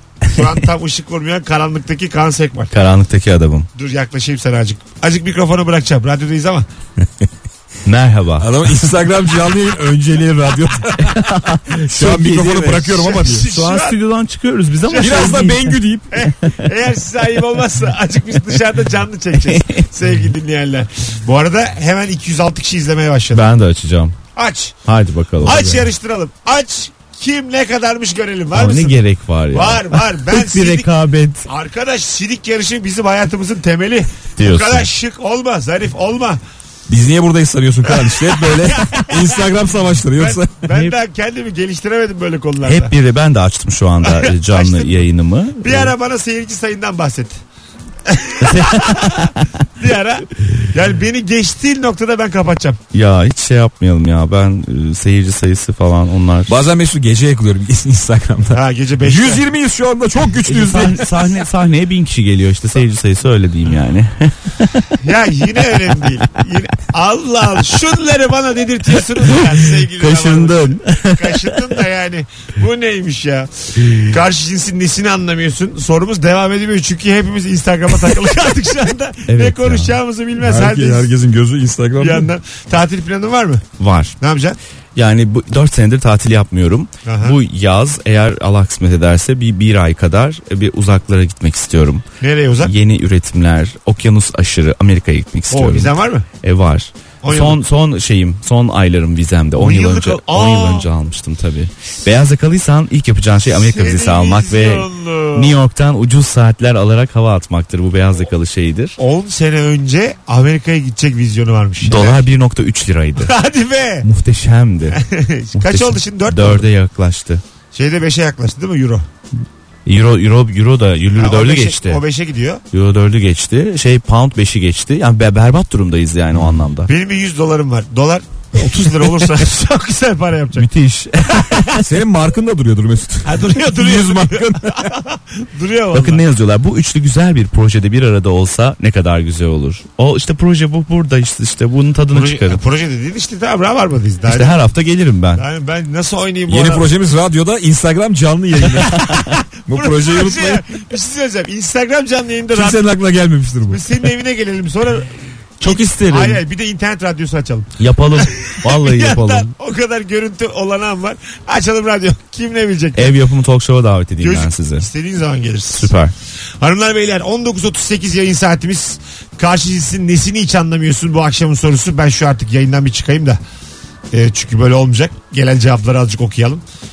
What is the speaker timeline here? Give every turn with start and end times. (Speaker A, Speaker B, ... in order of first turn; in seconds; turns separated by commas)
Speaker A: 0.2-2.7, Speaker B: 2.7-3.7, Speaker A: 3.8-6.7, Speaker B: 7.8-8.5, Speaker C: 8.4-13.5, Speaker B: 11.0-16.6, Speaker A: 12.8-14.0, Speaker A: 14.8-15.5, Speaker C: 15.0-16.1, Speaker A: 16.1-23.4, Speaker B: 19.4-19.9, Speaker B: 23.3-24.2, Speaker A: 24.4-24.8, Speaker B: 24.9-25.9, Speaker A: 25.4-29.0, Speaker B: 28.5-31.5, Speaker A: 29.5-30.9, Speaker A: 31.5-36.4, Speaker B: 34.4-34.9, Speaker C: 36.9-40.6, Speaker A: 37.9-39.5, Speaker A: 40.2-42.9, Speaker B: 40.7-41.0, Speaker B: 42.6-45.9, Speaker A: 44.0-44.9, Speaker A: 45.6-47.4, Speaker A: 48.1-52.8, Speaker B: 48.4-49.5, Speaker B: 52.9-56.5, Speaker C: 56.5-61.3, Speaker A: 58.5-59.5, Speaker B: 60.5-64.9, Speaker A: 65.0-81.1, Speaker B: 69.2-71.6, Speaker B: 79.3-80.0, Speaker C: 80.4-82.3, Speaker A: 82.0-83.7, Speaker B: 83.8-84.2, Speaker A: 84.2-84.6, Speaker B: 85.0-92.0, Speaker A: 87.1-87.4, Speaker A: 92.2-92.7, Speaker B: 92.6-109.0, Speaker A: 95.5-96.3, Speaker A: 97.2-97.6, Speaker A: 99.6-100.9, Speaker A: 103.5-105.6, Speaker A: 109.0-112.2, Speaker B: 111.8-113.3, Speaker A: 113.2-114.1, Speaker B: 114.0-115.0, Speaker A: 114.9-116.7, Speaker B: 115.5-117.4, Speaker A: 117.7-119.1, Speaker B: 119.9-122.0, Speaker A: 121.2-122.6, Speaker B: 122.7-126.9, Speaker A: 126.9-130.7, Speaker B: 130.6-131.8, Speaker A: 131.3-131.8, Speaker C: 131.8-134.9, Speaker A: 133.2-136.2, Speaker B: 135.9-142.6, Speaker A: 142.1-144.6, Speaker B: 144.2-145.4, Speaker A: 145.3-146.9, Speaker C: 146.5-150.7, Speaker B: 148.8-149.3, Speaker A: 149.2-152.8, Speaker C: 152.5-153.8, Speaker A: 153.7-163.2, Speaker B: 155.6-156.4, Speaker B: 157.8-159.5, Speaker B: 162.9-164.9, Speaker A: 164.2-165.9, Speaker B: 165.7-166.1, Speaker A: 166.6-173.4, Speaker A: 174.1-176.6